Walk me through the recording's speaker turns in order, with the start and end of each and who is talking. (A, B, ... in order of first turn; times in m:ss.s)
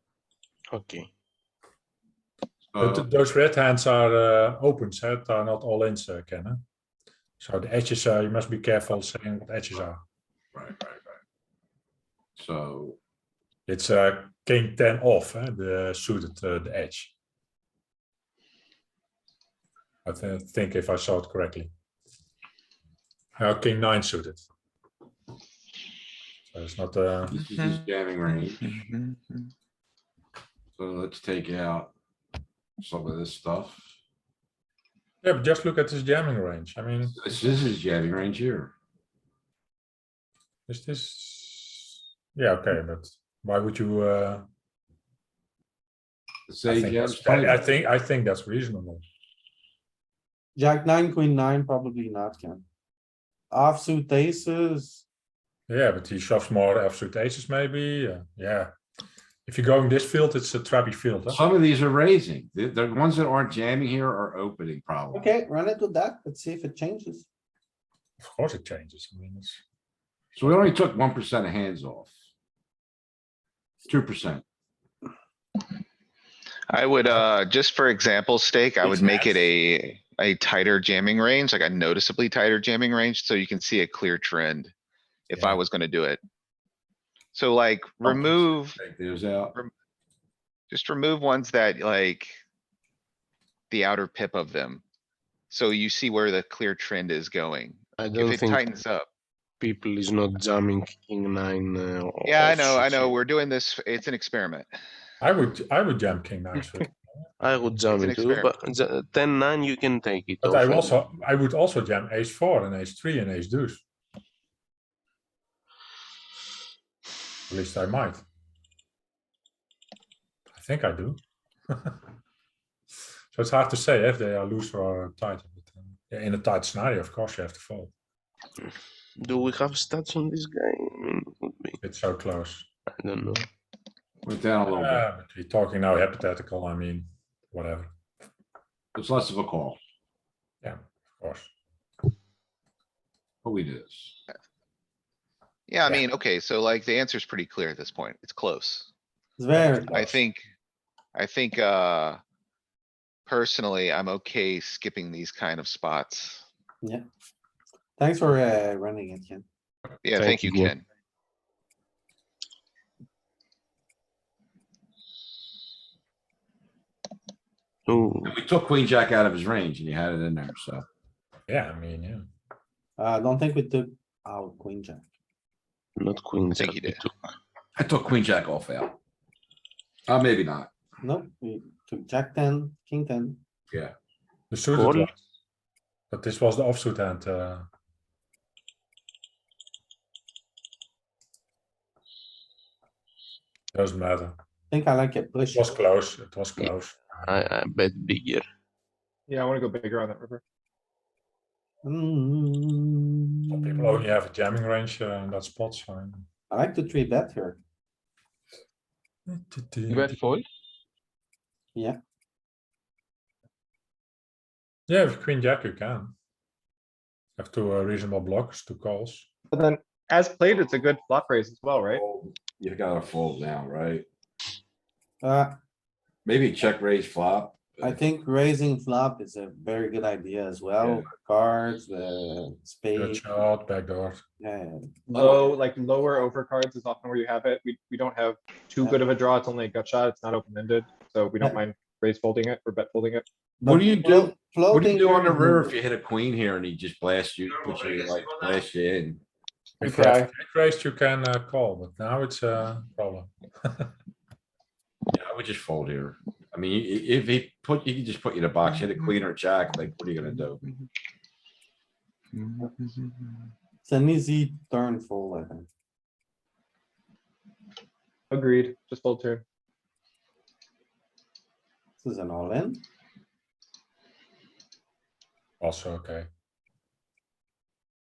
0:00.7-0:01.1 A
0:02.7-0:03.1 B
0:02.8-0:06.6 C
0:07.4-0:10.0 C
0:10.5-0:11.2 B
0:12.4-0:13.0 B
0:13.7-0:17.1 C
0:20.0-0:21.7 C
0:23.4-0:24.4 C
0:26.5-0:27.4 C
0:27.3-0:28.8 B
0:30.7-0:31.9 B
0:32.8-0:33.9 B
0:35.2-0:37.2 C
0:37.1-0:38.7 B
0:40.7-0:44.4 C
0:46.5-0:47.6 B
0:46.7-0:49.0 C
0:50.6-0:52.6 D
0:53.5-0:55.0 D
0:55.7-0:58.7 C
0:59.4-1:01.4 C
1:01.3-1:05.3 B
1:05.1-1:07.3 D
1:08.2-1:09.6 C
1:10.4-1:12.1 B
1:13.8-1:14.4 B
1:16.7-1:24.7 E
1:18.8-1:19.5 C
1:25.3-1:26.2 E
1:27.3-1:28.8 E
1:28.0-1:29.6 B
1:30.7-1:32.4 E
1:33.7-1:34.8 E
1:35.5-1:39.1 E
1:38.0-1:38.6 A
1:39.6-1:43.1 A
1:42.2-1:44.7 E
1:45.2-1:47.2 C
1:47.4-1:51.0 A
1:47.9-1:48.5 E
1:50.4-1:53.8 C
1:57.5-1:58.2 C
2:00.5-2:01.2 C
2:03.3-2:07.9 C
2:09.2-2:11.8 A
2:11.8-2:12.7 C
2:13.0-2:13.5 A
2:14.2-2:15.0 B
2:14.7-2:17.9 C
2:18.9-2:19.8 B
2:20.6-2:21.5 C
2:23.4-2:24.1 B
2:25.7-2:28.9 E
2:29.4-2:30.2 D
2:29.9-2:30.4 E
2:31.1-2:32.2 E
2:33.3-2:36.4 E
2:38.0-2:39.4 D
2:40.0-2:40.8 E
2:40.2-2:40.7 A
2:47.9-2:48.3 A
2:48.2-2:50.8 B
2:51.5-2:52.2 C
2:53.0-2:55.0 D
2:56.0-2:57.0 A
2:56.6-2:57.0 E
2:57.8-2:59.0 B
3:00.1-3:00.7 B
3:01.0-3:03.4 D
3:04.5-3:05.2 C
3:04.7-3:05.1 A
3:06.1-3:07.7 C
3:13.7-3:14.4 C
3:14.7-3:15.8 D
3:15.5-3:17.2 C
3:17.2-3:18.5 A
3:19.3-3:20.4 F
3:21.8-3:24.0 D
3:23.5-3:26.2 C
3:26.5-3:27.6 D
3:29.3-3:30.2 C
3:29.9-3:30.4 A
3:34.9-3:36.1 C
3:37.4-3:39.3 C
3:39.5-3:42.0 F
3:41.9-3:44.0 B
3:45.2-3:45.6 D
3:46.2-3:47.9 B
3:47.8-3:53.2 D
3:53.0-3:54.2 C
3:54.4-3:54.9 D
3:55.1-4:03.2 F
3:55.1-3:55.5 B
4:03.6-4:05.7 D
4:03.6-4:09.2 B
4:09.8-4:13.9 C
4:09.8-4:10.3 F
4:15.1-4:20.7 B
4:23.8-4:25.7 D
4:28.3-4:29.4 F
4:32.0-4:32.8 D
4:35.6-4:36.3 C